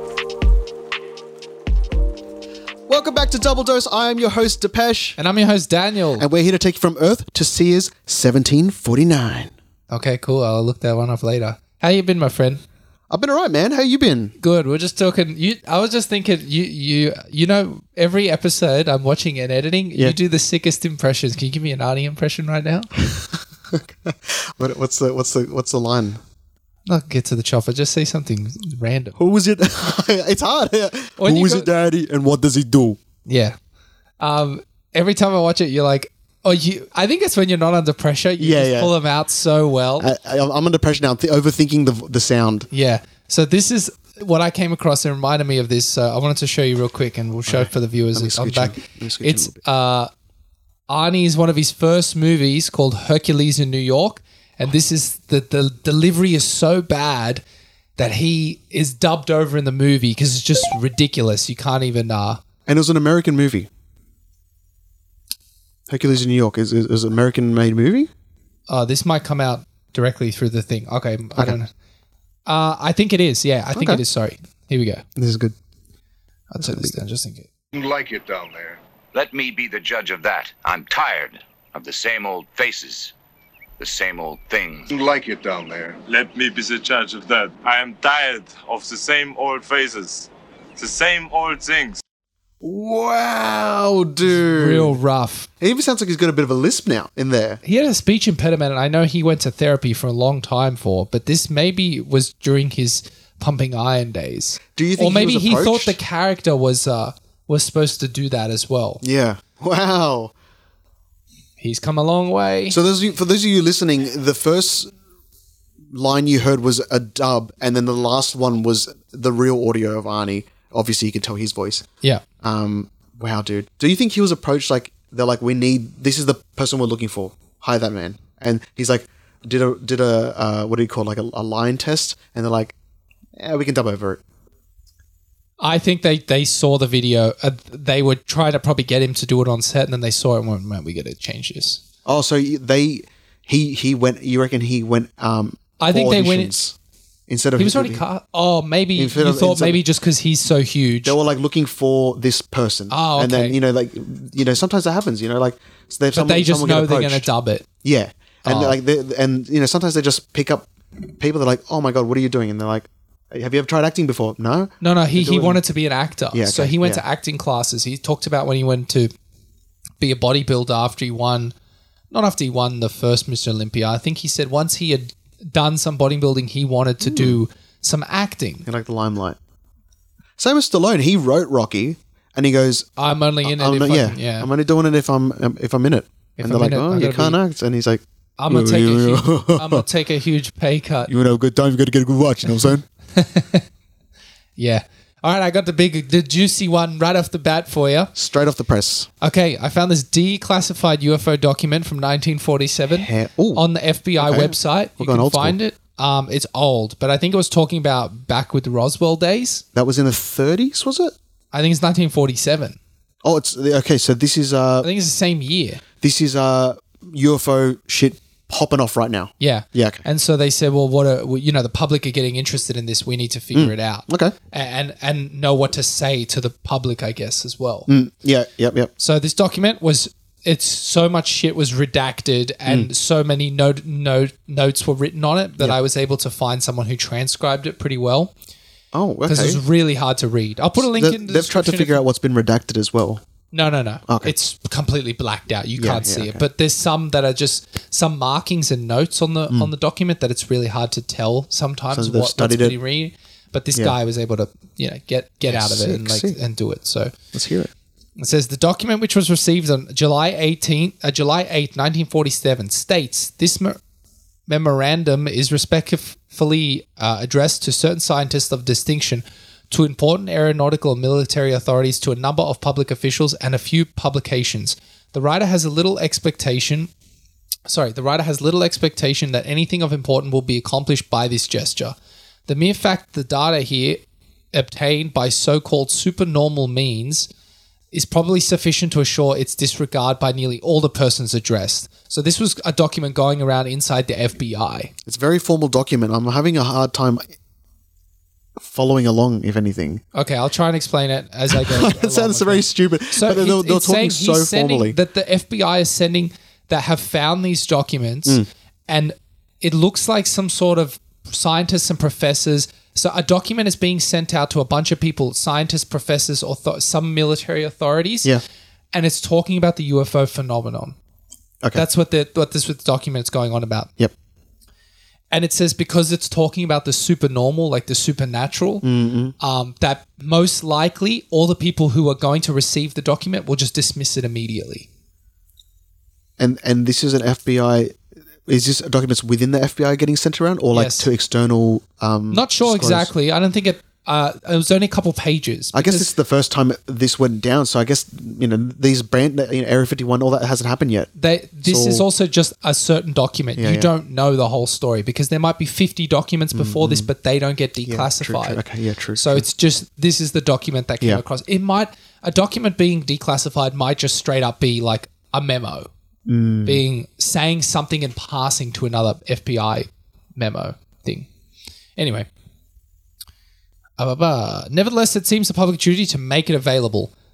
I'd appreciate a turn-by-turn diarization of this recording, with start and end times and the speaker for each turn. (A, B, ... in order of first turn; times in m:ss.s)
0:02.9-0:05.2 A
0:05.2-0:06.2 B
0:06.2-0:09.5 A
0:09.9-0:12.6 B
0:13.1-0:14.3 A
0:14.4-0:22.9 B
0:23.2-0:26.2 A
0:26.9-0:29.2 B
0:29.2-0:33.0 A
0:31.2-0:31.7 B
0:33.2-0:33.6 B
0:34.2-0:40.1 B
0:38.4-0:38.9 A
0:40.0-0:42.7 A
0:42.7-0:50.1 B
0:47.5-0:49.6 A
0:50.9-0:57.4 B
0:58.0-1:02.4 B
1:02.7-1:03.7 A
1:05.9-1:08.1 A
1:08.7-1:11.7 B
1:12.5-1:15.0 B
1:13.7-1:14.0 A
1:15.2-1:15.6 A
1:16.5-1:17.5 B
1:16.6-1:17.0 A
1:17.7-1:18.8 C
1:19.1-1:23.1 D
1:23.8-1:24.9 D
1:24.9-1:26.0 C
1:26.1-1:32.0 E
1:32.6-1:35.0 A
1:34.3-1:35.5 B
1:35.6-1:37.6 A
1:37.6-1:49.0 B
1:44.8-1:46.0 A
1:49.0-1:50.3 A
1:51.6-1:52.8 B
1:52.7-1:54.9 A
1:55.9-2:01.8 A
2:02.4-2:12.7 A
2:13.4-2:14.2 A
2:15.6-2:21.8 B
2:22.0-2:26.8 A
2:25.8-2:26.6 B
2:27.3-2:28.0 A
2:27.6-2:31.2 B
2:29.0-2:29.8 A
2:31.0-2:37.3 A
2:32.9-2:33.6 B
2:36.1-2:37.6 B
2:37.8-2:40.7 A
2:38.4-2:38.8 B
2:41.2-2:45.6 A
2:44.8-2:49.1 B
2:46.3-2:47.0 A
2:50.0-2:51.5 B
2:52.1-2:58.7 B
2:57.0-2:57.4 A
2:58.7-2:59.4 A
3:00.4-3:02.9 A
3:03.0-3:04.5 B
3:03.4-3:09.8 A
3:06.4-3:07.4 B
3:08.4-3:11.1 B
3:11.1-3:12.8 A
3:13.2-3:13.6 B
3:14.6-3:18.1 B
3:18.2-3:19.1 A
3:19.2-3:29.6 B
3:22.9-3:23.6 A
3:24.2-3:25.6 A
3:29.7-3:31.1 A
3:31.5-3:32.8 B
3:33.2-3:34.9 A
3:34.8-3:35.8 B
3:36.0-3:40.0 A
3:39.4-3:47.9 B
3:43.5-3:44.4 A
3:47.9-3:48.9 A
3:49.0-3:58.3 B
3:58.9-3:59.6 A
3:59.3-4:02.0 B
4:00.8-4:03.2 A
4:03.5-4:17.2 B
4:04.1-4:04.3 A
4:05.8-4:06.4 A
4:11.9-4:12.8 A
4:15.5-4:16.4 A
4:17.3-4:17.7 A
4:18.2-4:23.8 B
4:24.5-4:36.9 B
4:37.7-4:42.0 B
4:42.5-4:44.0 B
4:44.5-4:47.3 B
4:47.9-4:54.9 B
4:55.1-4:57.2 A
4:58.6-5:00.0 A
5:00.1-5:18.3 B
5:01.5-5:05.0 A
5:18.9-5:21.0 B
5:21.7-5:23.9 B
5:25.3-5:28.8 B
5:28.8-5:29.4 A
5:29.4-5:34.9 B
5:36.4-5:38.0 A
5:38.5-5:43.1 A
5:40.7-5:41.1 B
5:42.3-5:46.1 B
5:45.7-5:51.1 A
5:51.2-5:58.6 B
5:51.6-5:52.0 A
5:53.6-5:53.9 A
5:56.5-5:57.1 A
5:57.8-5:59.5 A
5:59.2-6:05.9 B
6:06.3-6:06.8 A
6:06.7-6:11.3 B
6:12.0-6:12.3 B
6:14.0-6:17.1 B